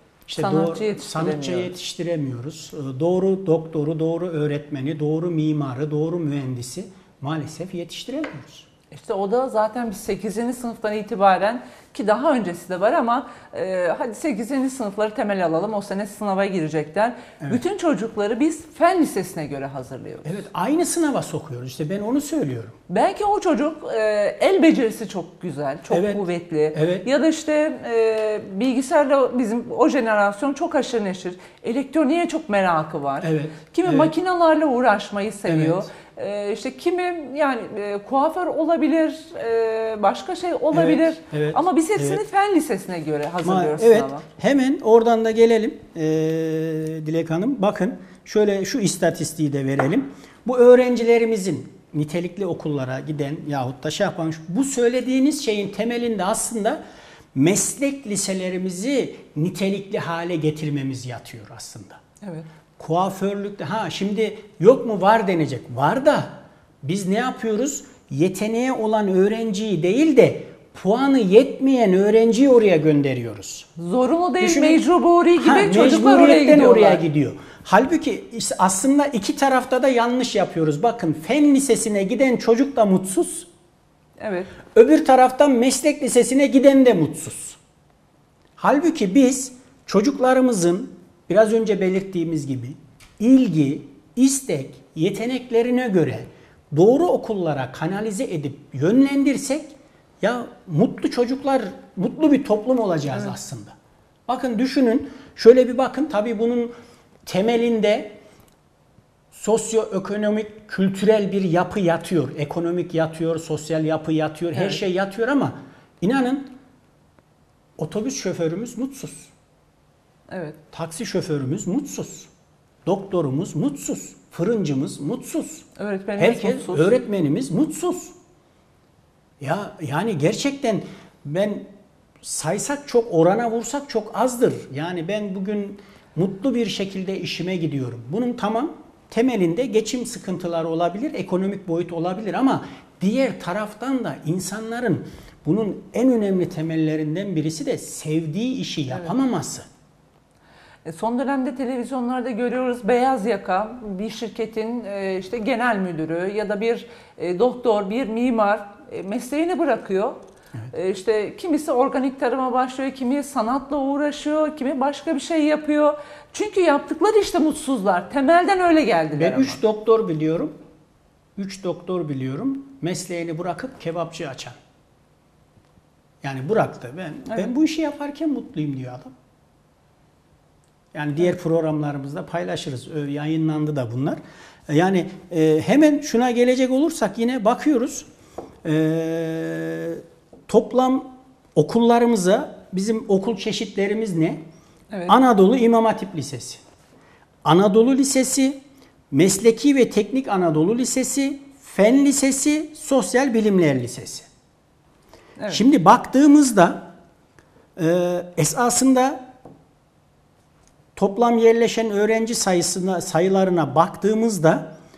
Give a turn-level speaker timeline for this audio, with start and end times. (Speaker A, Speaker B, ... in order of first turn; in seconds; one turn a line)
Speaker A: 0.3-8.7
Speaker B: 0.3-1.7
Speaker B: 8.9-20.4
Speaker A: 20.2-22.8
Speaker B: 22.9-44.2
Speaker A: 25.9-26.2
Speaker A: 26.7-27.1
Speaker A: 33.2-34.1
Speaker A: 35.5-35.9
Speaker A: 40.7-42.2
Speaker A: 43.4-56.8
Speaker A: 57.3-62.0
Speaker B: 62.2-62.5
Speaker A: 62.8-73.7
Speaker B: 73.8-77.0
Speaker A: 74.4-74.8
Speaker A: 75.4-83.5
Speaker B: 84.2-84.5
Speaker A: 84.7-87.6
Speaker A: 88.6-103.7
Speaker A: 104.3-106.7
Speaker A: 107.2-108.2
Speaker A: 109.3-116.5
Speaker B: 114.5-114.8
Speaker A: 117.8-119.3
Speaker B: 120.3-120.6
Speaker A: 120.7-122.3
Speaker A: 122.8-125.7
Speaker B: 125.8-126.9
Speaker A: 126.2-128.1
Speaker A: 129.4-131.7
Speaker A: 132.2-149.6
Speaker B: 150.8-160.2
Speaker B: 160.7-169.6
Speaker A: 169.1-170.5
Speaker A: 171.3-174.6
Speaker A: 176.2-179.1
Speaker A: 180.9-188.1
Speaker A: 188.6-194.4
Speaker B: 194.9-195.2
Speaker A: 195.1-196.6
Speaker A: 197.4-198.6
Speaker A: 199.1-204.3
Speaker A: 205.5-206.9
Speaker A: 207.8-209.2
Speaker A: 210.9-214.7